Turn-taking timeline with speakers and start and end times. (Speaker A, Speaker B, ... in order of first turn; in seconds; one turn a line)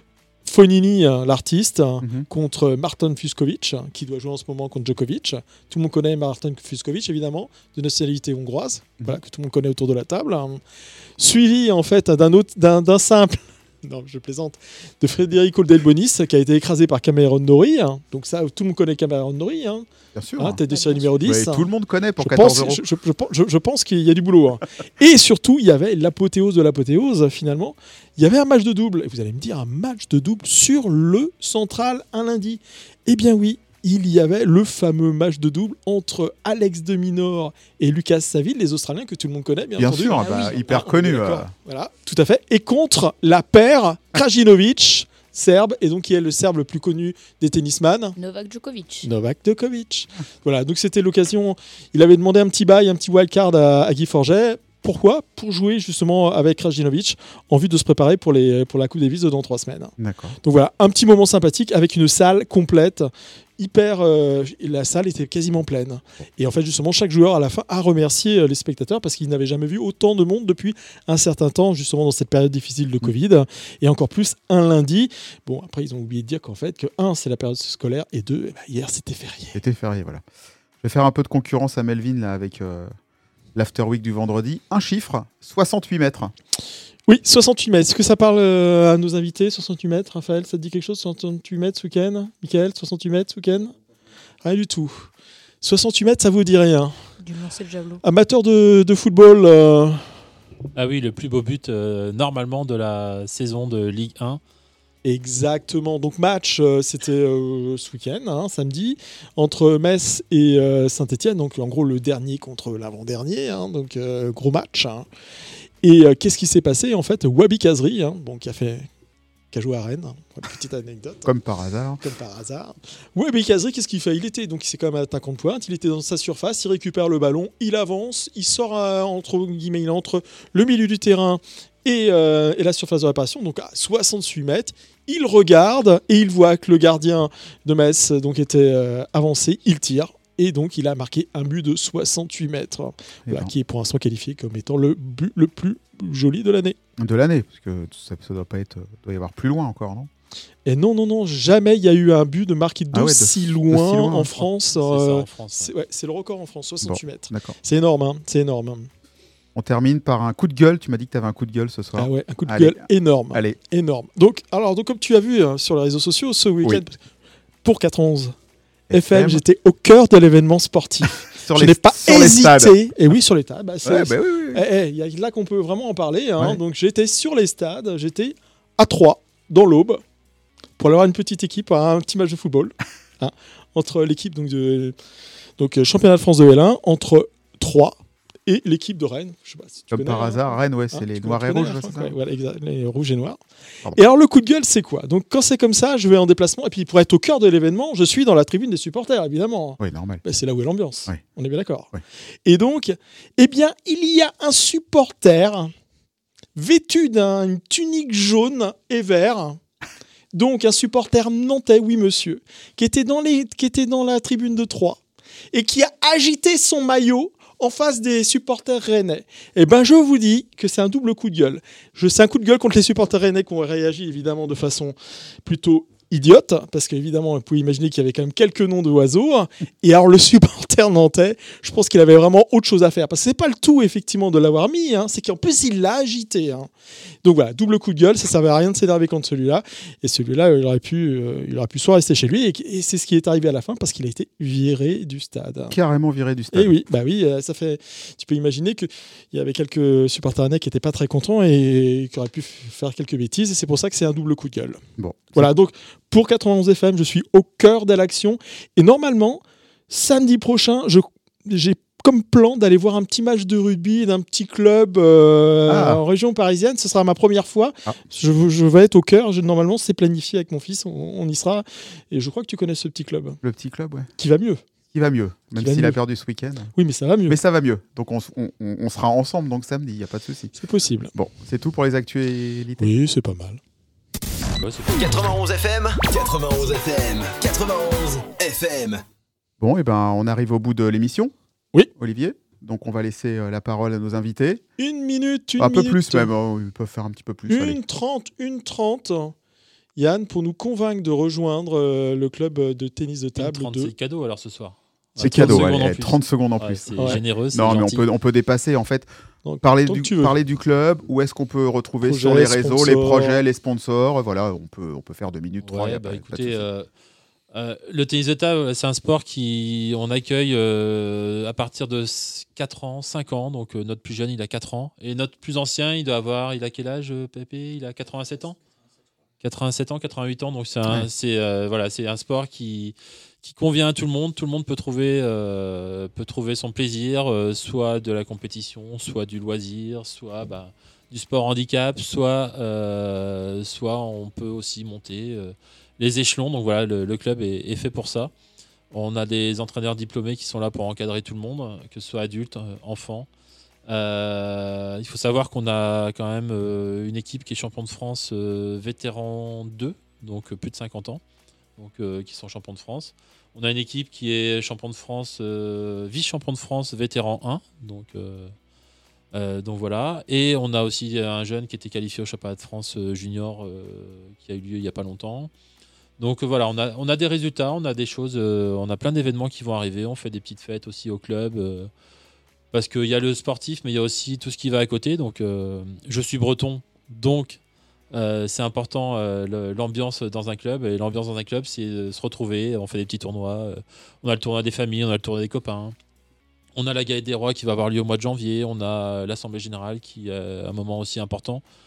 Speaker A: 0.4-10.6
Speaker B: 2.0-2.3
Speaker A: 11.2-19.9
Speaker B: 20.1-20.6
Speaker A: 20.4-21.7
Speaker C: 20.6-21.2
Speaker B: 21.2-22.8
Speaker A: 22.2-48.1
Speaker B: 39.8-41.5
Speaker C: 40.1-40.8
Speaker C: 48.2-49.1
Speaker A: 49.0-79.5
Speaker B: 60.0-60.4
Speaker B: 79.5-80.2
Speaker B: 80.8-82.9
Speaker B: 83.5-86.3
Speaker A: 87.1-93.7
Speaker A: 94.4-97.1
Speaker C: 97.2-98.0
Speaker A: 98.0-100.1
Speaker D: 100.7-104.4
Speaker A: 105.0-115.1
Speaker A: 115.8-118.9
Speaker A: 119.5-121.3
Speaker B: 121.2-122.0
Speaker A: 122.0-146.8
Speaker B: 143.3-143.5
Speaker B: 147.0-150.1
Speaker A: 150.6-158.9
Speaker B: 152.9-154.3
Speaker D: 154.3-155.7
Speaker B: 156.8-157.6
Speaker B: 159.5-163.6
Speaker A: 161.9-167.0
Speaker A: 167.6-168.3
Speaker B: 168.9-169.4
Speaker A: 168.9-180.0
Speaker B: 171.3-172.8
Speaker B: 173.8-174.6
Speaker A: 180.8-184.9
Speaker A: 185.6-193.4
Speaker B: 189.9-192.2
Speaker A: 193.9-201.9
Speaker B: 199.8-200.2
Speaker A: 202.4-205.7
Speaker A: 206.6-209.6
Speaker A: 210.3-215.0
Speaker A: 215.5-236.7
Speaker A: 237.2-245.8
Speaker B: 245.7-246.7
Speaker A: 246.5-254.8
Speaker B: 255.0-255.5
Speaker A: 255.3-273.4
Speaker B: 265.6-266.0
Speaker B: 273.4-274.1
Speaker A: 274.2-274.6
Speaker B: 274.9-276.7
Speaker A: 275.5-276.0
Speaker A: 276.7-277.4
Speaker B: 277.3-280.5
Speaker A: 280.6-281.1
Speaker B: 281.1-282.9
Speaker A: 282.8-283.6
Speaker D: 284.6-285.4
Speaker E: 284.9-289.0
Speaker B: 289.6-291.3
Speaker B: 291.9-294.6
Speaker A: 294.8-296.3
Speaker B: 295.6-297.8
Speaker A: 297.5-299.3
Speaker A: 299.9-303.9
Speaker D: 303.4-308.1
Speaker B: 305.2-309.1
Speaker A: 305.2-305.8
Speaker A: 309.4-310.4
Speaker B: 309.6-316.6
Speaker A: 312.0-313.4
Speaker D: 315.6-316.9
Speaker D: 317.5-328.6
Speaker D: 329.4-348.3
Speaker D: 348.9-353.3
Speaker D: 353.9-361.2
Speaker D: 361.8-368.5
Speaker D: 369.3-375.5
Speaker D: 376.2-381.9
Speaker D: 382.7-387.6
Speaker D: 388.1-395.9
Speaker D: 396.7-401.6